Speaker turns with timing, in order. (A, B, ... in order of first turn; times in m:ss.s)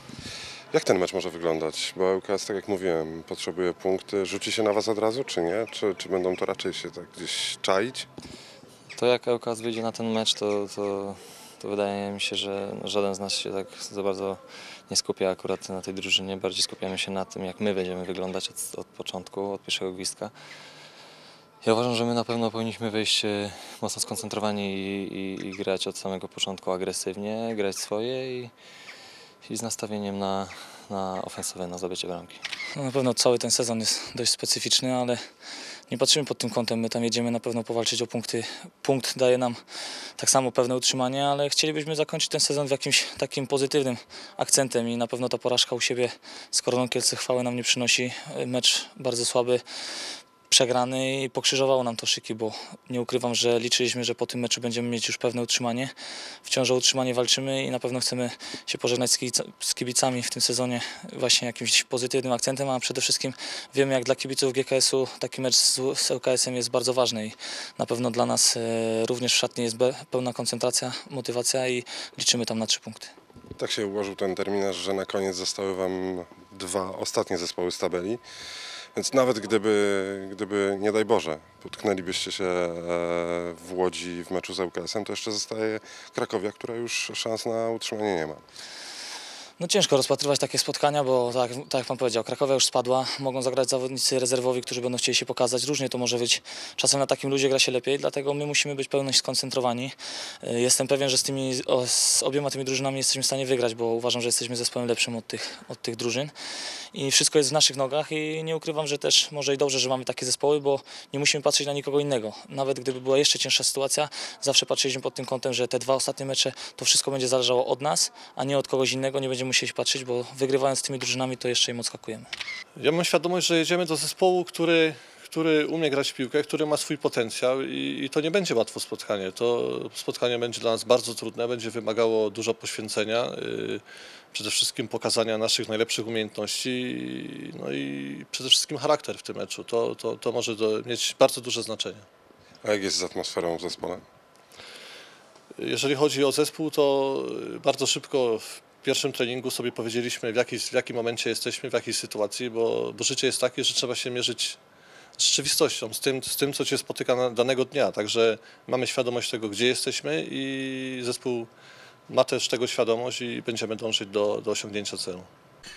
0:00.7-0:08.0 A
0:08.9-0:20.3 B
0:21.6-0:28.5 B
0:29.4-0:32.4 B
0:32.7-0:35.2 C
0:35.9-0:39.6 C
0:40.2-0:49.6 C
0:50.5-0:55.9 C
0:56.4-1:13.1 C
1:13.6-1:18.2 A
1:18.9-1:28.4 A
1:29.6-1:46.3 C
1:46.9-2:02.3 C
2:02.8-2:22.0 D
2:22.6-2:24.0 A
2:25.6-2:34.6 D
2:35.2-2:41.5 D
2:42.1-2:45.3 D